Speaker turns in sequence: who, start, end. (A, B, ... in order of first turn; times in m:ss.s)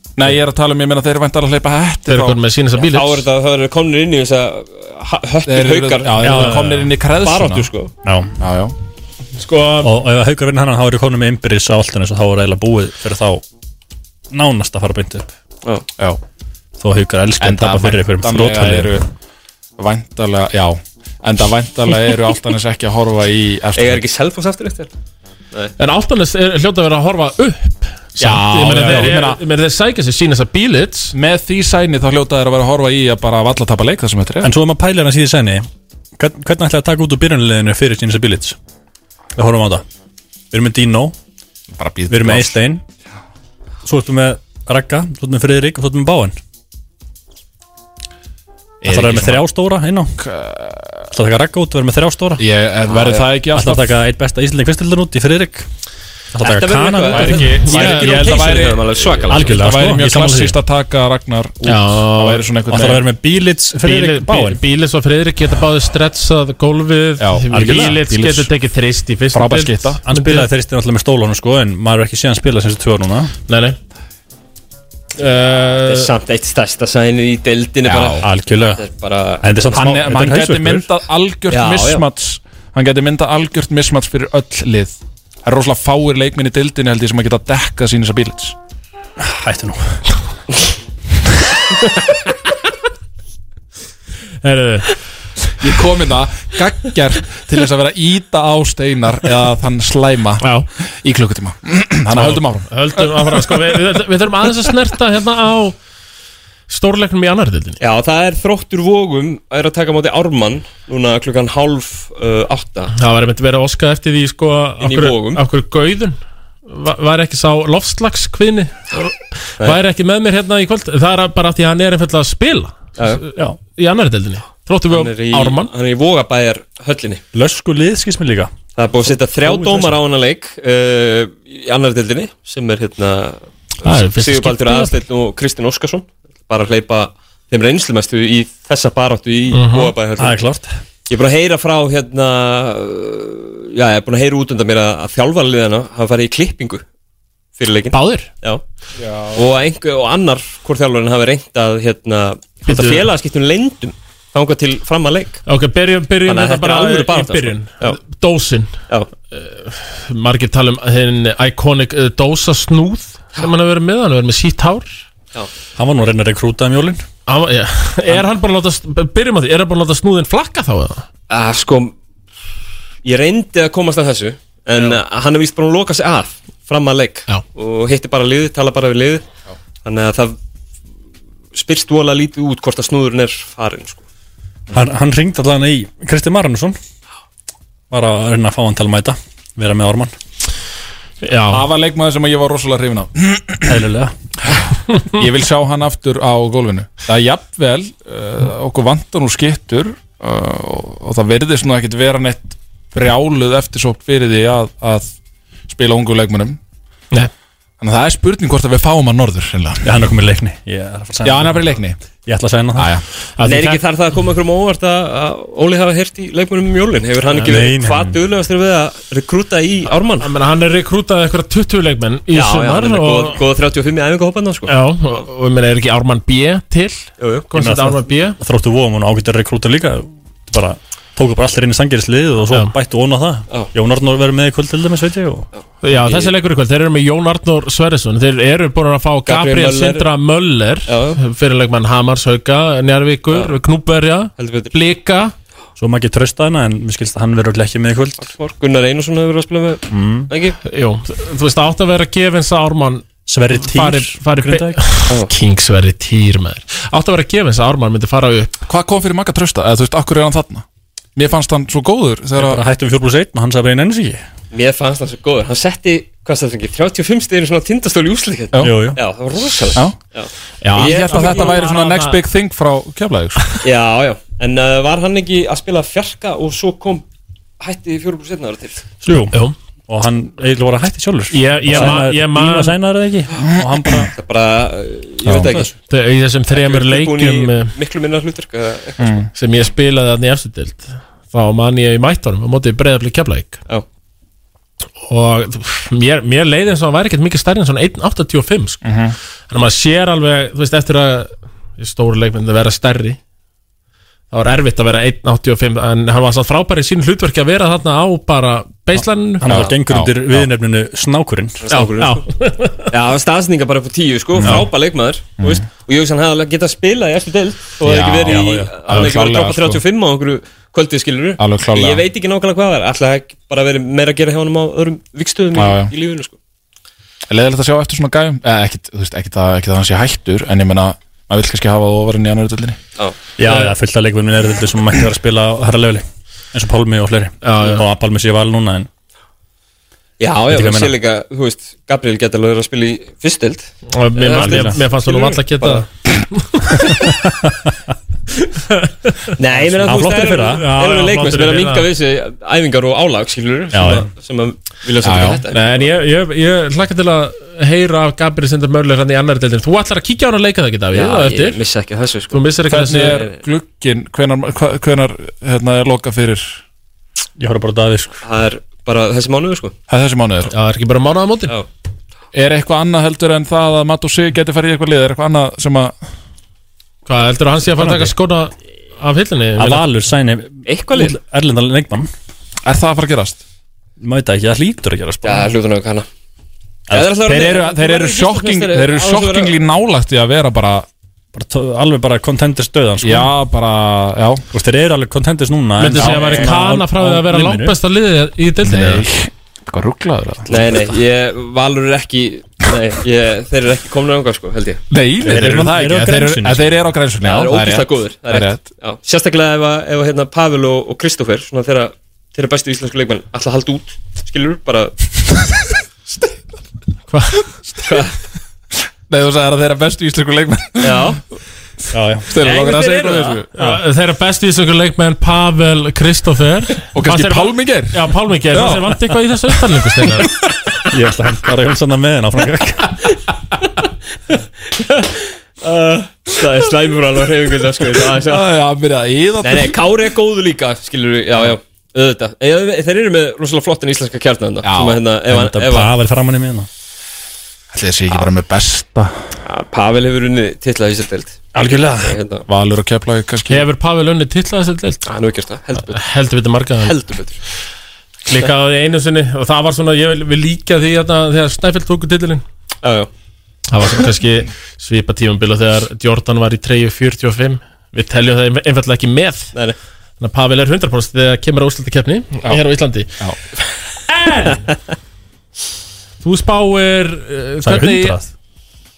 0:00.2-0:02.4 A
0:02.1-0:03.2 B
0:02.8-0:06.5 C
0:05.4-0:07.7 A
0:06.2-0:06.9 D
0:07.2-0:07.9 C
0:08.0-0:08.3 D
0:08.4-0:08.7 A
0:09.4-0:09.9 B
0:09.8-0:13.4 D
0:14.3-0:15.3 D
0:16.8-0:19.0 D
0:17.4-0:19.0 A
0:19.8-0:24.0 A
0:23.7-0:24.9 C
0:25.8-0:31.1 B
0:28.2-0:29.4 A
0:31.1-0:34.5 A
0:34.4-0:38.6 D
0:39.3-0:39.8 D
0:40.5-0:41.2 D
0:41.7-0:42.6 A
0:42.1-0:42.8 D
0:43.8-0:46.4 D
0:48.8-0:49.4 A
0:48.8-0:50.2 D
0:50.2-0:51.1 A
0:51.1-0:52.4 D
0:52.4-0:53.9 A
0:52.9-0:53.3 C
0:53.5-0:55.7 D
0:56.3-0:57.6 D
0:56.4-0:59.7 C
0:57.1-1:03.1 A
0:57.2-0:58.5 B
0:59.3-1:00.6 D
1:01.6-1:02.5 B
1:02.7-1:04.6 D
1:03.8-1:10.5 B
1:07.2-1:08.5 A
1:07.5-1:08.0 D
1:09.3-1:10.0 A
1:10.0-1:13.3 D
1:13.5-1:13.8 B
1:15.2-1:16.1 B
1:15.8-1:20.0 C
1:17.8-1:18.2 A
1:18.2-1:18.8 D
1:19.4-1:20.9 D
1:19.8-1:28.5 A
1:21.5-1:22.0 C
1:29.2-1:30.0 D
1:34.4-1:35.0 B
1:35.6-1:43.8 A
1:40.4-1:40.7 B
1:42.1-1:45.8 B
1:46.7-1:47.8 B
1:47.8-1:52.9 C
1:52.9-2:05.7 B
1:54.8-1:55.4 C
2:03.0-2:03.2 C
2:04.9-2:07.2 C
2:07.3-2:08.5 D
2:08.8-2:20.4 C
2:09.4-2:09.9 D
2:13.8-2:14.9 B
2:19.5-2:19.9 B
2:20.2-2:20.7 D
2:21.1-2:26.8 C
2:27.6-2:28.6 C
2:27.9-2:28.3 B
2:29.0-2:29.4 A
2:29.3-2:35.4 C
2:32.7-2:33.1 B
2:35.5-2:38.7 B
2:36.2-2:38.0 C
2:39.3-2:44.9 B
2:45.8-2:47.0 D
2:47.3-2:51.0 B
2:51.3-2:51.9 C
2:53.0-2:59.2 C
2:59.8-3:00.4 C
3:01.5-3:04.0 C
3:04.7-3:06.8 D
3:07.9-3:10.1 D
3:11.2-3:11.6 B
3:11.5-3:13.8 A
3:13.6-3:14.1 D
3:14.5-3:25.1 A
3:25.7-3:26.6 A
3:27.8-3:29.9 A
3:29.8-3:32.9 D
3:31.2-3:32.0 A
3:32.7-3:33.0 A
3:33.4-3:33.8 B
3:33.4-3:40.3 C
3:37.5-3:38.2 D
3:40.2-3:43.4 B
3:42.3-3:44.7 C
3:44.7-3:48.4 B
3:47.2-3:47.4 C
3:47.5-3:55.5 D
3:55.8-4:05.3 B
3:55.9-3:56.3 C
3:59.2-4:00.1 C
4:00.9-4:01.2 C
4:04.4-4:04.7 C
4:05.8-4:08.2 D
4:08.2-4:10.6 C
4:09.9-4:10.3 D
4:10.6-4:18.5 B
4:13.2-4:14.8 D
4:18.6-4:20.6 A
4:21.2-4:22.6 A
4:22.4-4:24.2 D
4:24.5-4:31.7 C
4:28.5-4:28.9 A
4:28.6-4:29.0 D
4:30.6-4:32.2 B
4:30.6-4:33.6 A
4:33.6-4:37.0 C
4:37.6-4:38.8 C
4:39.0-4:39.4 D
4:39.3-4:39.6 B
4:39.9-4:44.1 D
4:41.3-4:42.7 B
4:43.6-4:44.0 A
4:44.1-4:45.7 C
4:45.3-4:45.7 D
4:45.9-4:47.7 B
4:46.5-4:49.1 C
4:49.0-4:49.3 A
4:49.3-4:53.6 B
4:55.0-4:58.8 B
4:58.8-4:59.2 A
4:59.5-5:03.2 B
5:04.3-5:09.5 B
5:09.4-5:11.6 D
5:09.4-5:10.5 A
5:11.6-5:12.2 C
5:11.7-5:12.9 B
5:12.9-5:26.3 C
5:17.8-5:19.8 A
5:18.3-5:18.7 D
5:21.4-5:22.0 A
5:25.5-5:25.9 A
5:27.3-5:32.8 A
5:33.4-5:38.9 D
5:33.4-5:33.7 B
5:37.4-5:37.8 B
5:40.2-5:45.8 C
5:40.5-5:41.0 D
5:43.9-5:47.0 B
5:44.4-5:44.8 D
5:47.2-5:47.5 D
5:48.7-5:51.9 B
5:49.4-5:55.9 C
5:49.8-5:50.7 D
5:53.7-5:54.1 D
5:55.0-5:55.4 A
5:55.5-6:01.6 B
6:00.9-6:02.4 C
6:02.3-6:03.2 B
6:02.7-6:06.6 A
6:03.1-6:03.4 C
6:07.4-6:08.2 D
6:08.2-6:09.7 C
6:09.9-6:10.5 A
6:10.5-6:11.6 B
6:12.3-6:15.9 A
6:17.0-6:19.8 B
6:17.8-6:18.1 D
6:19.6-6:22.1 D
6:20.6-6:21.2 C
6:22.6-6:23.4 A
6:24.0-6:25.5 D
6:25.2-6:26.1 C
6:26.9-6:29.6 C
6:27.2-6:30.9 A
6:31.3-6:33.3 D
6:33.0-6:34.4 A
6:34.5-6:37.8 D
6:35.8-6:39.0 B
6:35.9-6:36.5 A
6:38.6-6:40.8 A
6:40.5-6:44.8 C
6:44.9-6:48.7 A
6:45.2-6:46.8 D
6:47.2-6:54.9 C
6:57.1-6:57.4 B
6:57.8-6:58.1 C
6:59.1-7:01.2 A
7:00.8-7:01.2 C
7:01.9-7:02.3 D
7:02.2-7:03.6 A
7:02.4-7:03.4 C
7:03.5-7:10.3 B
7:06.9-7:08.0 A
7:08.5-7:08.9 A
7:10.9-7:13.0 D
7:14.7-7:18.5 C
7:18.2-7:19.8 A
7:19.4-7:25.9 C
7:24.6-7:25.0 A
7:25.3-7:26.7 D
7:27.7-7:29.1 A
7:29.4-7:32.4 C
7:31.5-7:32.2 D
7:32.5-7:33.6 A
7:33.5-7:35.0 B
7:35.0-7:36.0 C
7:35.8-7:36.9 B
7:36.8-7:37.4 C
7:38.2-7:42.4 B
7:42.8-7:43.1 C
7:43.7-7:49.5 B
7:50.2-7:53.1 B
7:54.1-7:54.6 B
7:56.2-7:58.2 B
7:57.6-7:58.3 D